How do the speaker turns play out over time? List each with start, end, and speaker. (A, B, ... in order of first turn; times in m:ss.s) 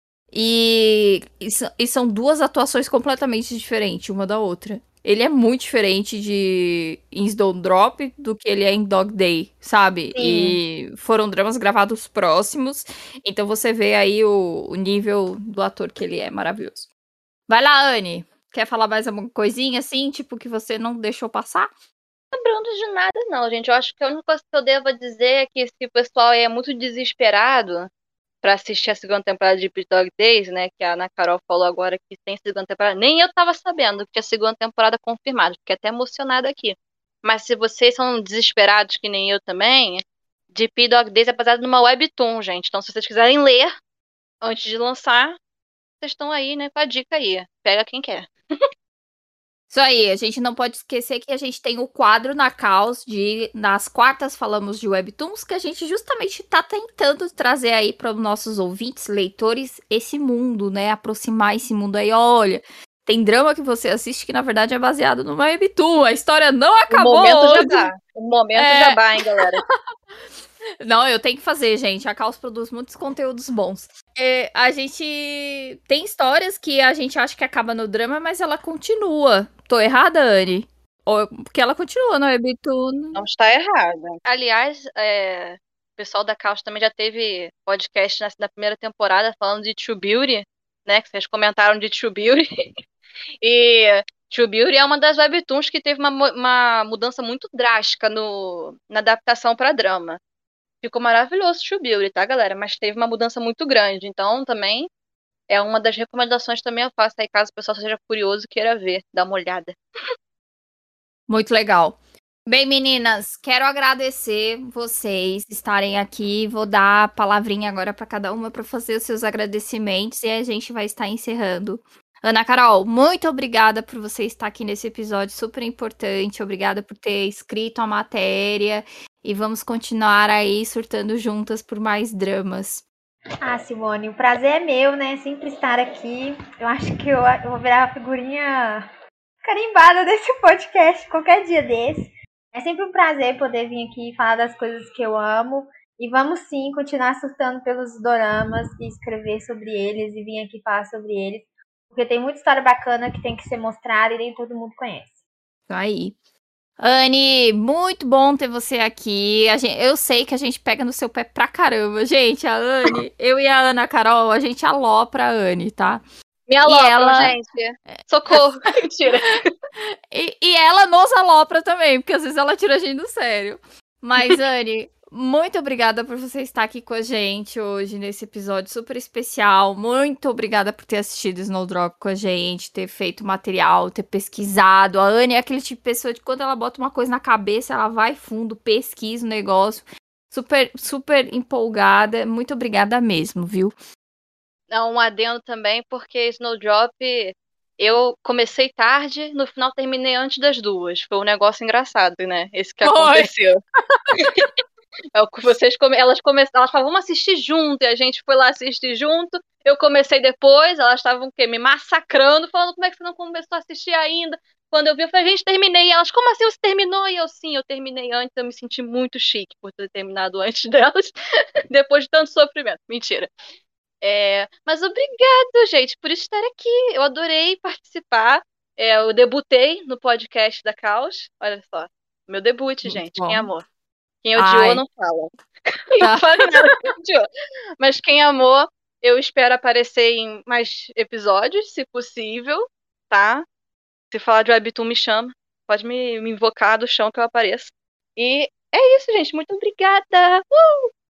0:00.3-0:16.9 A
0:10.1-0:10.6 B
0:17.5-0:21.7 A
0:22.3-0:27.9 C
0:28.4-0:43.7 C
0:44.4-0:45.4 C
0:46.0-0:48.3 C
0:49.7-1:07.9 A
1:06.9-1:09.6 C
1:08.6-1:09.8 A
1:10.8-1:23.2 A
1:23.2-1:32.4 C
1:33.4-1:40.2 C
1:40.8-1:44.9 C
1:45.5-1:49.8 C
1:51.3-2:12.8 A
2:13.4-2:18.9 B
2:19.4-2:35.2 B
2:35.7-2:36.2 A
2:36.8-2:46.0 A
2:46.5-2:49.5 C
2:46.6-2:47.4 A
2:49.8-3:13.7 A
3:14.7-3:23.6 C
3:22.8-3:23.3 A
3:23.9-3:24.4 A
3:24.2-3:24.5 C
3:25.2-3:41.1 C
3:41.7-3:43.3 C
3:44.0-3:53.7 C
3:52.8-3:53.5 A
3:54.2-3:57.2 C
3:54.4-3:54.8 A
3:56.0-3:56.8 A
3:57.8-4:03.5 C
4:04.1-4:10.9 C